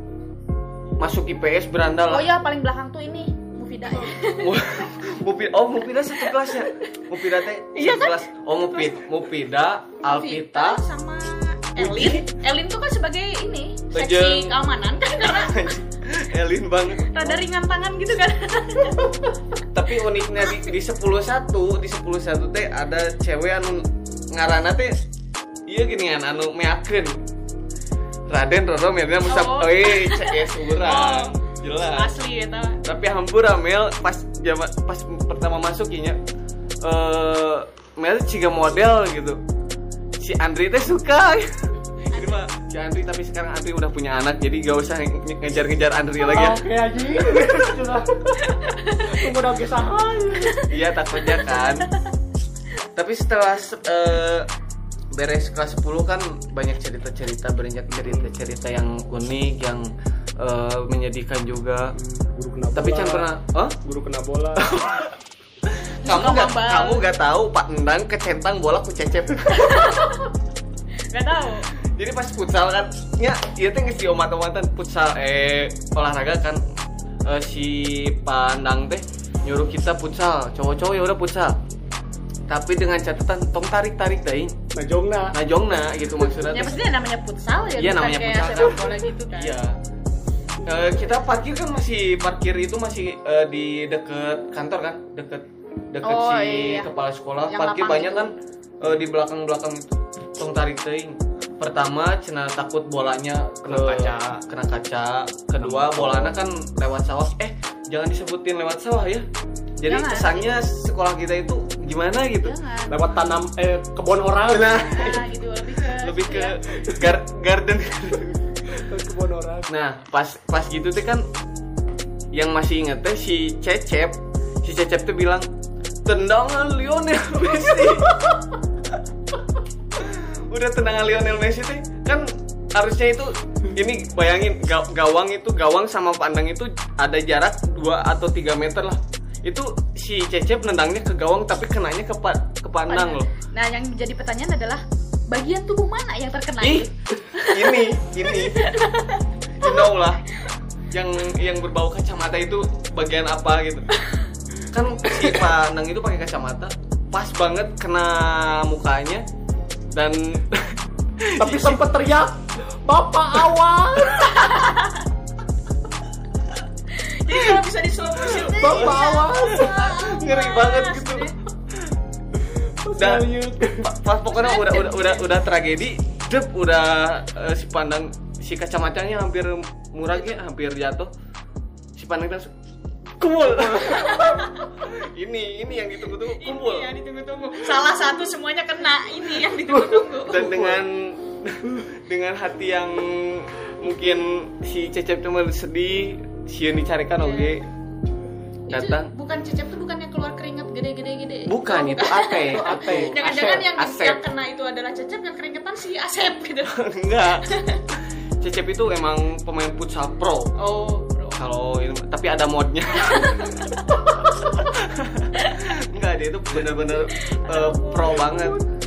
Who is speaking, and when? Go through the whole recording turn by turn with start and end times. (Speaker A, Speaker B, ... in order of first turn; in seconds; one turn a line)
Speaker A: 1.0-2.2
Speaker B: 2.1-4.6
Speaker A: 4.4-10.8
Speaker B: 6.2-6.8
Speaker B: 7.7-8.2
Speaker B: 10.1-15.7
Speaker A: 11.8-12.2
Speaker A: 13.9-14.6
Speaker A: 15.2-17.4
Speaker B: 17.1-19.3
Speaker A: 19.7-24.9
Speaker A: 25.7-27.1
Speaker A: 28.3-32.1
Speaker B: 29.2-31.4
Speaker B: 31.9-32.8
Speaker A: 32.8-36.2
Speaker A: 36.8-39.4
Speaker A: 40.2-46.6
Speaker B: 42.1-42.5
Speaker C: 46.2-48.5
Speaker B: 48.4-49.2
Speaker C: 49.0-50.6
Speaker A: 50.7-51.9
Speaker B: 51.3-52.0
Speaker A: 53.0-54.5
Speaker A: 55.1-62.0
Speaker C: 58.0-58.3
Speaker C: 62.0-63.3
Speaker A: 62.8-63.8
Speaker C: 63.8-64.7
Speaker A: 64.6-65.2
Speaker A: 65.7-69.9
Speaker B: 66.0-67.0
Speaker B: 69.5-70.3
Speaker B: 71.1-71.7
Speaker A: 71.8-76.6
Speaker A: 77.2-81.6
Speaker A: 82.5-84.6
Speaker C: 84.8-85.3
Speaker A: 85.3-86.9
Speaker B: 86.4-89.6
Speaker A: 87.8-89.8
Speaker A: 90.7-109.2
Speaker B: 96.0-96.9
Speaker B: 97.5-98.3
Speaker C: 103.7-104.3
Speaker C: 105.6-106.3
Speaker A: 109.8-112.5
Speaker B: 109.9-110.5
Speaker B: 112.4-113.0
Speaker C: 112.9-114.9
Speaker A: 114.5-115.2
Speaker B: 114.9-116.6
Speaker A: 116.0-118.4
Speaker C: 118.8-119.7
Speaker A: 119.7-121.2
Speaker A: 122.3-125.5
Speaker A: 126.0-128.4
Speaker A: 130.0-143.3
Speaker B: 142.9-149.9
Speaker A: 146.6-146.9
Speaker A: 147.4-148.6
Speaker A: 149.5-150.2
Speaker A: 150.9-153.9
Speaker A: 154.7-159.2
Speaker A: 159.9-161.8
Speaker C: 161.4-164.2
Speaker B: 164.2-165.1
Speaker B: 166.9-171.3
Speaker C: 168.4-169.8
Speaker A: 168.5-171.3
Speaker C: 172.8-173.9
Speaker A: 173.0-181.1
Speaker B: 174.3-175.2
Speaker A: 182.0-182.5
Speaker A: 183.2-186.9
Speaker B: 183.8-184.7
Speaker B: 186.4-190.6
Speaker A: 190.3-197.7
Speaker C: 190.5-190.8
Speaker B: 197.2-197.5
Speaker B: 198.7-206.8
Speaker A: 198.7-199.1
Speaker A: 201.5-204.2
Speaker C: 202.5-203.7
Speaker A: 206.7-207.5
Speaker B: 207.4-207.8
Speaker A: 208.4-210.5
Speaker B: 210.6-211.4
Speaker A: 211.4-218.6
Speaker B: 213.0-214.0
Speaker B: 215.3-215.6
Speaker B: 217.1-218.5